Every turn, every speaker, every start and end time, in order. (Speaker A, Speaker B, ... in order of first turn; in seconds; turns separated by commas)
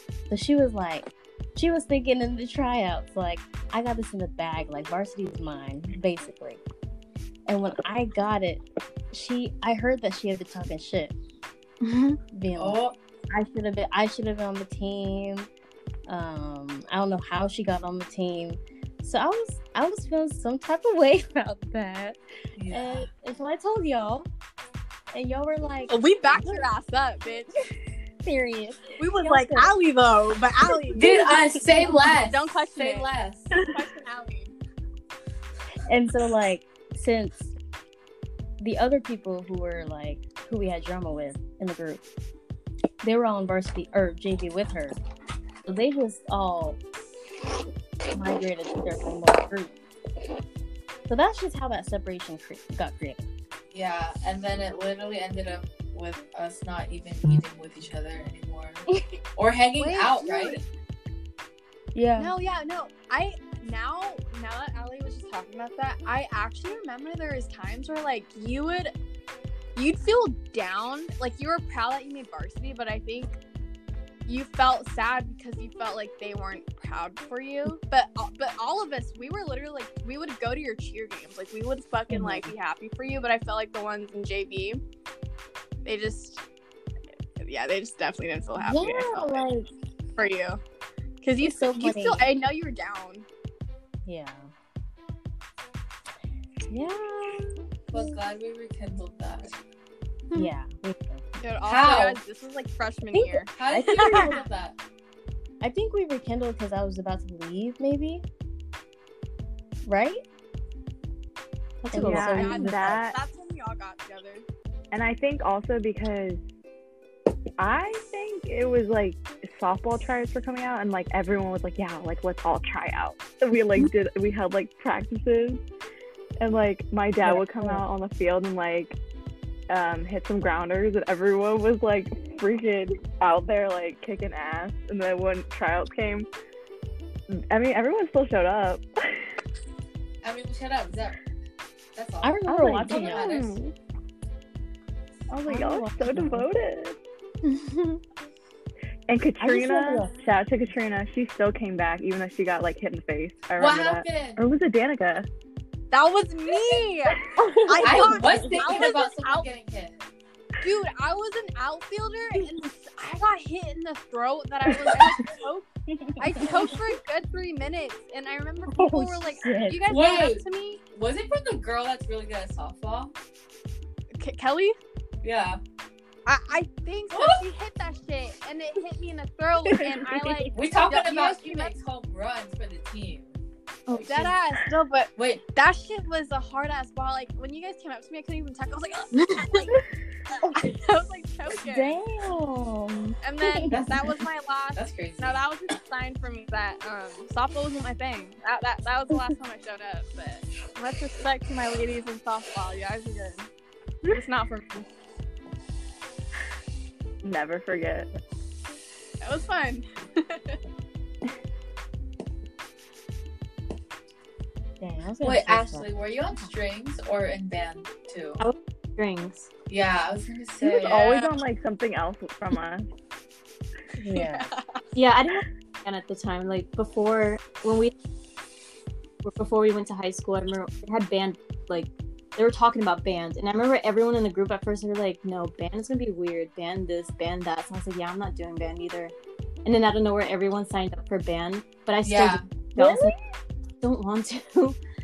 Speaker A: 0.3-6.6, Speaker A: 7.5-11.2, Speaker B: 11.8-12.2, Speaker A: 12.3-15.5, Speaker C: 12.6-13.0, Speaker A: 16.1-24.3, Speaker C: 22.6-23.1, Speaker A: 25.1-26.6, Speaker D: 25.9-27.5, Speaker A: 28.2-29.7, Speaker D: 29.0-31.1, Speaker A: 30.7-32.1, Speaker C: 30.9-33.5, Speaker D: 32.2-34.5, Speaker A: 35.9-37.5, Speaker A: 38.6-42.0, Speaker A: 43.0-45.0, Speaker A: 45.7-46.8, Speaker A: 48.1-49.7, Speaker A: 51.1-53.3, Speaker C: 53.7-58.9, Speaker C: 59.4-60.6, Speaker A: 59.8-60.6, Speaker A: 62.0-62.3, Speaker D: 62.2-68.9, Speaker D: 69.8-73.4, Speaker D: 74.3-84.8, Speaker A: 82.1-82.5, Speaker D: 85.8-86.4, Speaker D: 87.4-89.4, Speaker A: 88.6-89.7, Speaker D: 90.2-90.6, Speaker D: 91.2-93.2, Speaker A: 91.4-92.3, Speaker A: 94.0-94.5, Speaker A: 96.7-98.2, Speaker C: 97.9-99.5, Speaker A: 100.3-101.2, Speaker D: 101.4-104.3, Speaker C: 101.7-102.2, Speaker A: 103.1-104.4, Speaker C: 103.5-104.8, Speaker A: 105.6-108.2, Speaker A: 109.8-110.2, Speaker B: 111.8-113.0, Speaker A: 111.9-113.0, Speaker E: 112.0-113.2, Speaker D: 112.4-114.4, Speaker E: 114.9-116.4, Speaker E: 117.6-125.6, Speaker E: 126.4-129.0, Speaker B: 127.2-127.8, Speaker A: 127.3-127.8, Speaker E: 129.7-136.3, Speaker E: 137.3-139.4, Speaker C: 140.2-141.2, Speaker C: 142.0-143.6, Speaker A: 142.2-143.4, Speaker E: 142.5-143.7, Speaker E: 145.3-147.0, Speaker A: 145.5-146.5, Speaker B: 147.5-147.9, Speaker E: 149.1-155.3, Speaker A: 149.4-150.1, Speaker C: 153.6-154.4, Speaker D: 155.9-159.5, Speaker A: 157.4-158.9, Speaker C: 157.8-160.0, Speaker D: 160.6-165.7, Speaker E: 164.7-165.1, Speaker A: 165.9-166.7, Speaker D: 166.2-170.8, Speaker A: 168.7-169.8, Speaker C: 169.9-173.1, Speaker D: 174.2-174.8, Speaker C: 175.2-175.6, Speaker D: 176.3-181.8, Speaker C: 177.1-177.4, Speaker A: 179.8-180.6, Speaker C: 180.5-183.3, Speaker B: 183.9-184.3, Speaker C: 183.9-184.3, Speaker D: 184.0-189.8, Speaker C: 185.2-185.4, Speaker B: 189.2-189.5, Speaker D: 190.5-192.0, Speaker A: 191.6-193.7, Speaker D: 193.2-203.5, Speaker C: 193.7-194.1, Speaker C: 194.8-195.4, Speaker D: 204.1-204.9, Speaker E: 207.2-208.1, Speaker D: 209.2-210.6, Speaker A: 214.8-215.9, Speaker C: 215.2-218.5, Speaker B: 218.4-219.5, Speaker C: 219.7-221.1, Speaker D: 220.8-221.3, Speaker E: 220.8-222.9, Speaker A: 224.0-224.5, Speaker D: 224.1-224.8, Speaker B: 224.9-227.9, Speaker B: 229.2-239.1, Speaker B: 239.7-243.2, Speaker C: 242.0-242.5, Speaker A: 242.8-243.2, Speaker B: 243.8-244.8